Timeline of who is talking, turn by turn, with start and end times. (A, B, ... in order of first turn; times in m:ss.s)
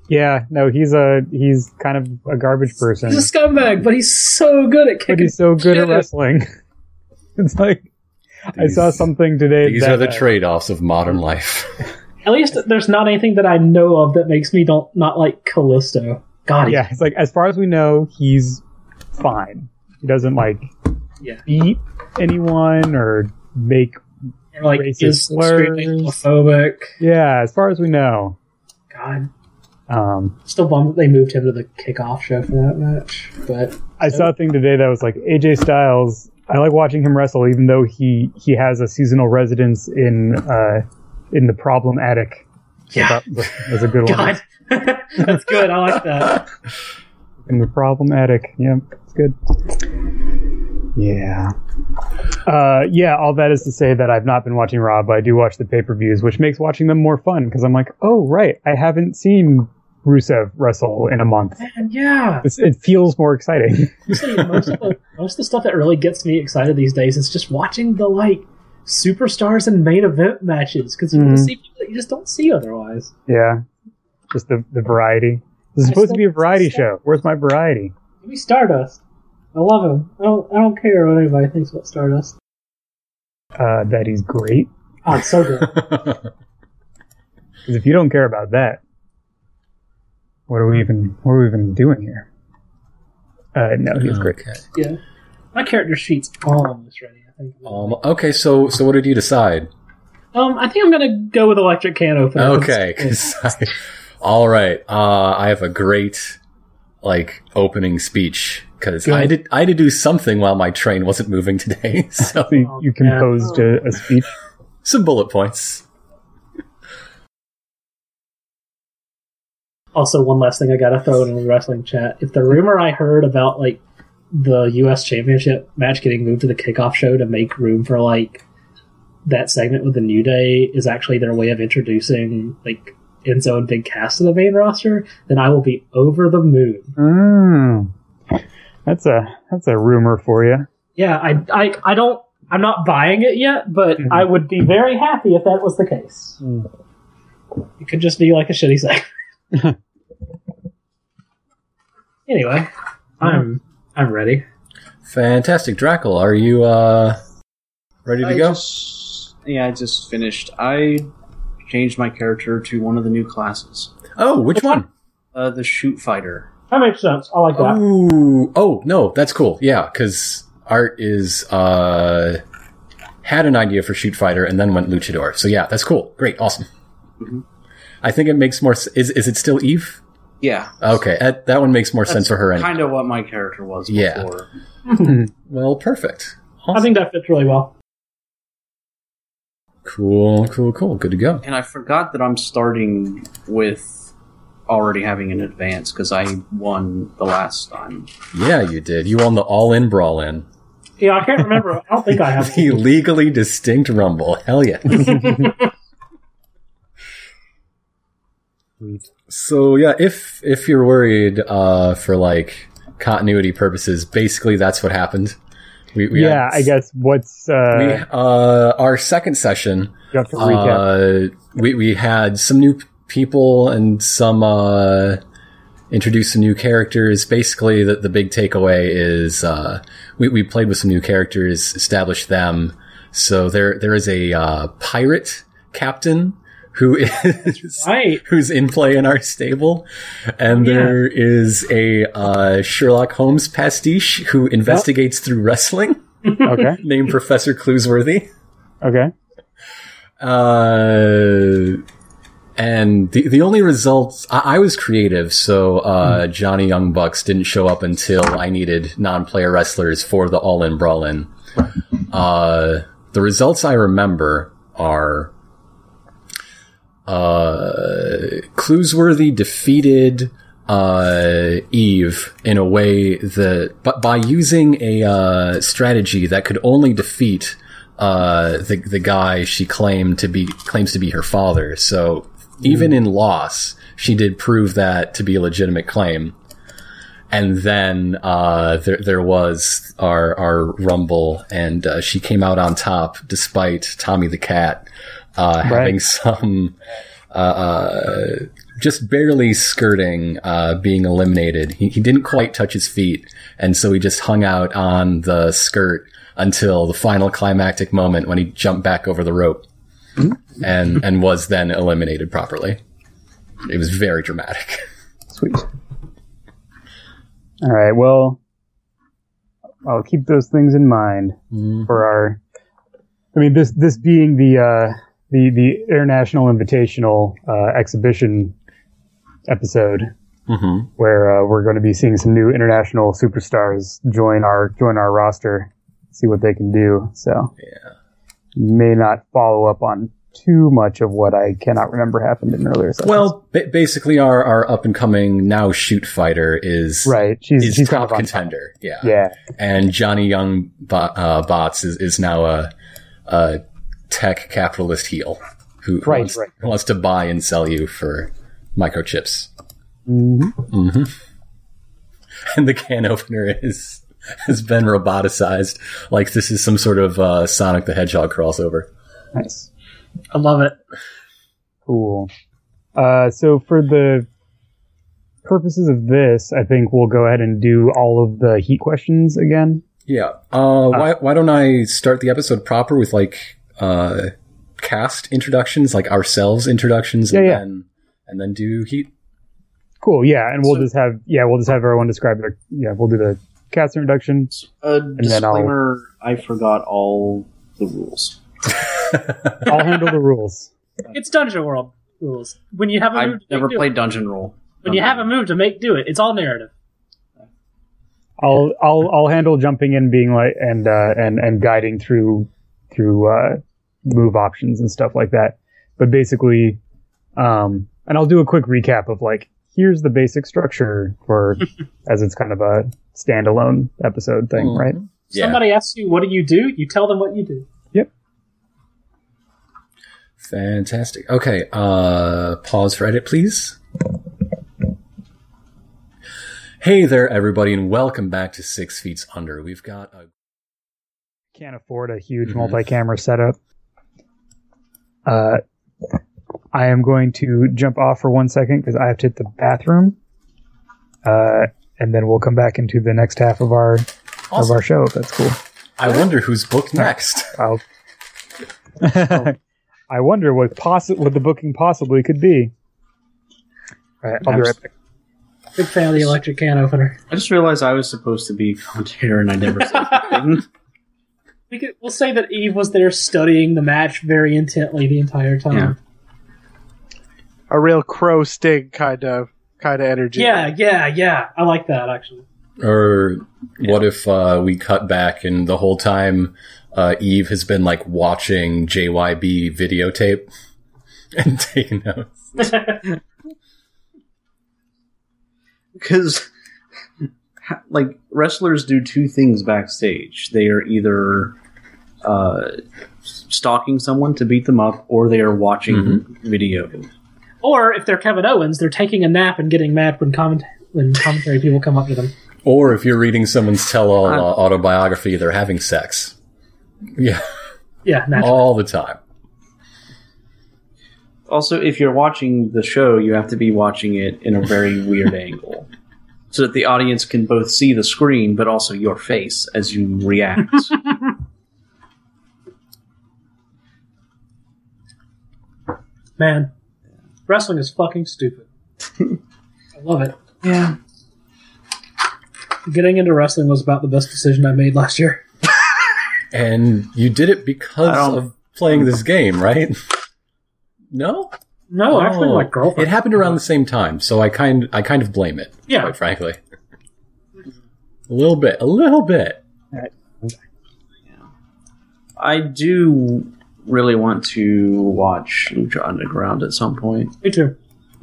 0:00.1-0:03.3 A
0:03.1-0:06.1 B
0:05.1-0:06.5 A
0:07.4-0:07.9 A
0:08.5-0:10.2 A
0:08.6-0:09.1 C
0:09.6-0:11.7 C
0:12.2-0:16.8 B
0:16.7-0:18.6 A
0:19.2-0:20.7 A
0:21.5-0:24.0 A
0:24.6-0:27.0 B
0:24.7-0:26.2 A
0:27.0-0:28.4 A
0:28.9-0:29.3 B
0:29.9-0:30.4 A
0:30.4-0:34.3 B
0:34.0-0:42.4 A
0:42.9-0:43.2 B
0:43.0-0:44.4 A
0:44.0-0:46.4 B
0:47.5-0:49.4 A
0:51.0-0:51.5 A
0:52.4-1:01.6 A
1:01.6-1:02.5 B
1:02.4-1:04.1 A
1:04.1-1:13.1 B
1:11.1-1:11.5 A
1:13.3-1:13.6 A
1:14.3-1:17.9 A
1:15.9-1:16.9 B
1:18.2-1:19.0 B
1:19.5-1:22.4 B
1:23.6-1:24.7 A
1:25.0-1:25.8 B
1:25.7-1:26.3 C
1:27.7-1:28.8 A
1:30.5-1:32.3 A
1:33.6-1:34.4 A
1:34.0-1:34.6 C
1:35.5-1:38.0 B
1:37.6-1:39.7 C
1:40.3-1:43.5 B
1:42.4-1:46.4 C
1:47.0-1:52.7 C
1:52.4-1:54.3 A
1:52.6-1:53.8 B
1:54.8-1:55.8 C
2:00.0-2:03.8 B
2:04.3-2:08.4 B
2:09.3-2:17.0 B
2:17.0-2:17.9 A
2:18.9-2:20.7 A
2:21.0-2:26.4 B
2:26.4-2:26.7 A
2:27.8-2:29.1 B
2:32.3-2:34.4 B
2:35.0-2:37.2 C
2:38.0-2:38.6 C
2:38.2-2:41.1 D
2:41.7-2:44.0 D
2:44.2-2:44.9 C
2:45.3-2:46.5 D
2:46.7-2:47.8 B
2:47.6-2:52.4 C
2:53.2-2:56.7 C
2:58.0-3:00.0 C
3:00.4-3:00.9 D
3:00.8-3:02.9 C
3:02.1-3:04.5 D
3:03.9-3:04.3 C
3:05.0-3:06.9 C
3:06.7-3:07.7 B
3:09.8-3:11.4 C
3:11.4-3:14.1 D
3:14.7-3:18.1 D
3:18.3-3:20.4 C
3:21.0-3:22.9 B
3:22.3-3:25.6 C
3:28.8-3:29.0 A
3:29.3-3:35.4 C
3:35.9-3:36.7 C
3:36.1-3:38.0 A
3:37.7-3:45.2 C
3:40.1-3:40.9 A
3:45.9-4:08.3 C
3:57.5-3:58.2 B
4:00.5-4:01.0 B
4:06.4-4:06.8 A
4:08.8-4:09.1 A
4:10.2-4:11.8 C
4:12.6-4:21.3 C
4:22.1-4:25.3 C
4:27.1-4:46.4 C
4:47.3-4:56.8 C
4:55.6-4:56.0 A
4:57.3-5:09.6 C
5:10.6-5:12.8 C
5:13.6-5:14.8 C
5:15.3-5:15.6 A
5:17.6-5:18.4 A
5:19.8-5:22.4 A
5:21.5-5:21.9 C
5:23.3-5:28.5 A
5:29.5-5:30.1 A
5:30.5-5:30.9 C
5:31.0-5:37.5 A
5:37.6-5:37.9 C
5:38.6-5:43.3 A
5:43.0-5:52.7 C
5:47.0-5:48.5 A
5:49.0-5:49.4 A
5:53.3-5:59.5 C
5:56.0-5:56.5 A
6:00.1-6:00.6 A
6:00.7-6:01.1 C
6:02.5-6:08.9 C
6:09.4-6:09.7 A
6:10.3-6:10.8 B
6:11.9-6:12.3 A
6:13.0-6:14.3 A
6:15.4-6:19.8 A
6:20.1-6:29.1 C
6:27.3-6:27.6 A
6:30.0-6:34.5 A
6:34.5-6:38.4 D
6:35.2-6:35.7 A
6:39.6-6:40.7 A
6:41.1-6:43.9 B
6:43.1-6:45.3 D
6:44.8-6:46.7 B
6:48.4-6:56.8 A
6:57.4-7:05.0 A
7:04.6-7:05.7 C
7:05.3-7:07.7 B
7:10.4-7:13.8 C
7:16.8-7:20.3 C
7:21.5-7:23.6 A
7:25.3-7:25.6 A
7:26.7-7:30.2 A
7:31.2-7:35.6 A
7:36.0-7:37.5 C
7:37.0-7:37.8 A
7:39.0-7:39.6 A
7:40.1-7:42.7 A
7:44.2-7:44.9 A
7:45.8-7:47.2 B
7:47.3-7:50.7 D
7:51.7-7:56.0 B
7:57.7-8:00.7 E
8:00.4-8:02.4 B
8:02.8-8:10.5 C
8:11.4-8:13.1 C
8:16.0-8:16.5 D
8:17.6-8:21.6 D
8:22.2-8:22.8 D
8:23.4-8:27.1 D
8:25.9-8:26.2 C
8:27.6-8:32.3 B
8:32.6-8:36.4 C
8:37.2-8:37.4 C
8:38.0-8:38.7 B
8:38.4-8:39.2 C
8:41.5-8:45.9 D
8:46.5-8:51.1 D
8:56.4-8:56.7 B
8:57.5-8:58.7 B
9:00.0-9:00.4 B
9:00.6-9:01.0 D
9:02.9-9:05.4 B
9:06.5-9:10.0 C
9:08.0-9:08.4 D
9:11.1-9:11.5 C
9:11.9-9:13.6 B
9:12.1-9:16.6 C
9:15.9-9:16.1 B
9:18.3-9:19.6 C
9:19.9-9:20.6 A
9:22.4-9:27.4 D
9:27.4-9:27.8 B